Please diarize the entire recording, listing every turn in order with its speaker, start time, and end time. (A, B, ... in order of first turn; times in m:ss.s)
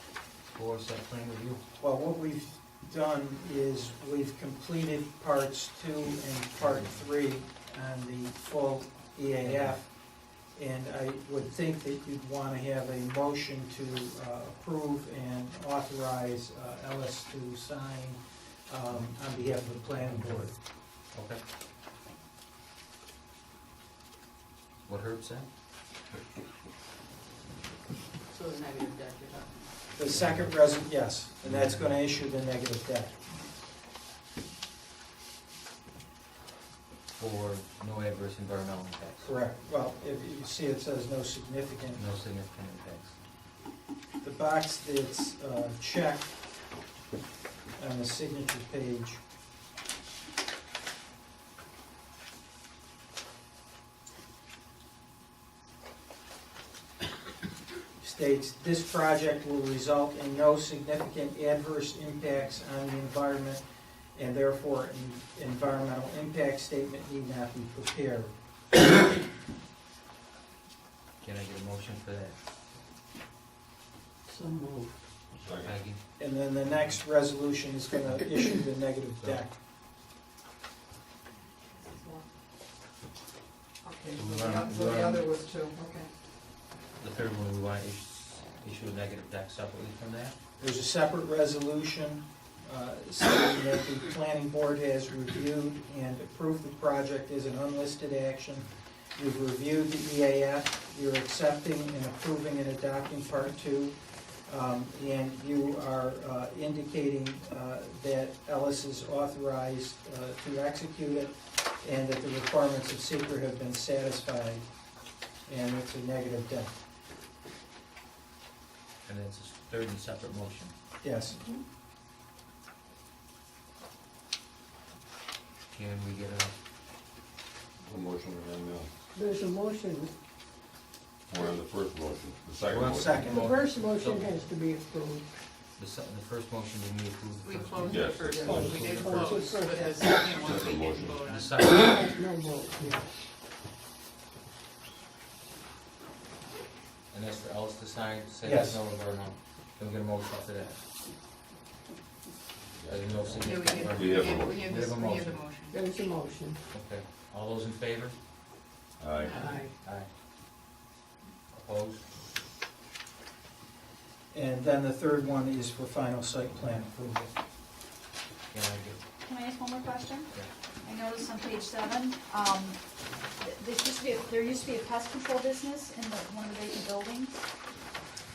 0:00.5-0:01.6 A
0:01.8-0:09.9 B
0:09.4-0:09.8 A
0:10.5-0:20.5 B
0:21.1-0:21.4 A
0:24.8-0:25.5 A
0:28.3-0:29.6 C
0:30.0-0:33.1 B
0:30.0-0:30.5 A
0:31.4-0:31.9 A
0:37.2-0:39.3 A
0:39.2-0:42.0 B
0:41.9-0:43.1 A
0:44.2-0:46.3 B
0:47.8-0:49.2 B
0:58.0-1:03.6 B
1:04.1-1:08.3 B
1:11.2-1:12.3 A
1:14.2-1:15.0 D
1:15.4-1:15.8 E
1:15.6-1:16.0 A
1:16.2-1:19.5 B
1:21.7-1:22.2 C
1:23.8-1:26.1 C
1:24.1-1:25.2 A
1:27.0-1:30.3 A
1:30.6-1:54.6 B
1:55.5-1:56.8 B
1:59.0-2:00.7 A
2:01.0-2:01.4 B
2:05.7-2:06.5 A
2:07.8-2:08.9 E
2:09.1-2:10.1 D
2:11.3-2:13.3 E
2:12.7-2:13.4 B
2:12.7-2:14.4 A
2:13.2-2:15.3 D
2:15.8-2:19.4 A
2:17.4-2:21.7 C
2:17.9-2:18.9 E
2:17.9-2:20.2 D
2:20.4-2:21.2 E
2:21.3-2:22.2 A
2:21.9-2:23.1 D
2:27.1-2:30.8 A
2:28.4-2:28.8 B
2:32.8-2:34.6 E
2:32.9-2:35.4 A
2:33.4-2:36.0 C
2:35.7-2:36.6 D
2:36.7-2:38.1 A
2:39.0-2:39.7 E
2:39.2-2:39.6 C
2:39.8-2:40.1 A
2:41.5-2:42.0 A
2:44.3-2:47.3 B
2:48.5-2:49.0 A
2:49.2-2:50.3 F
2:50.8-2:52.8 F
2:53.4-2:57.4 F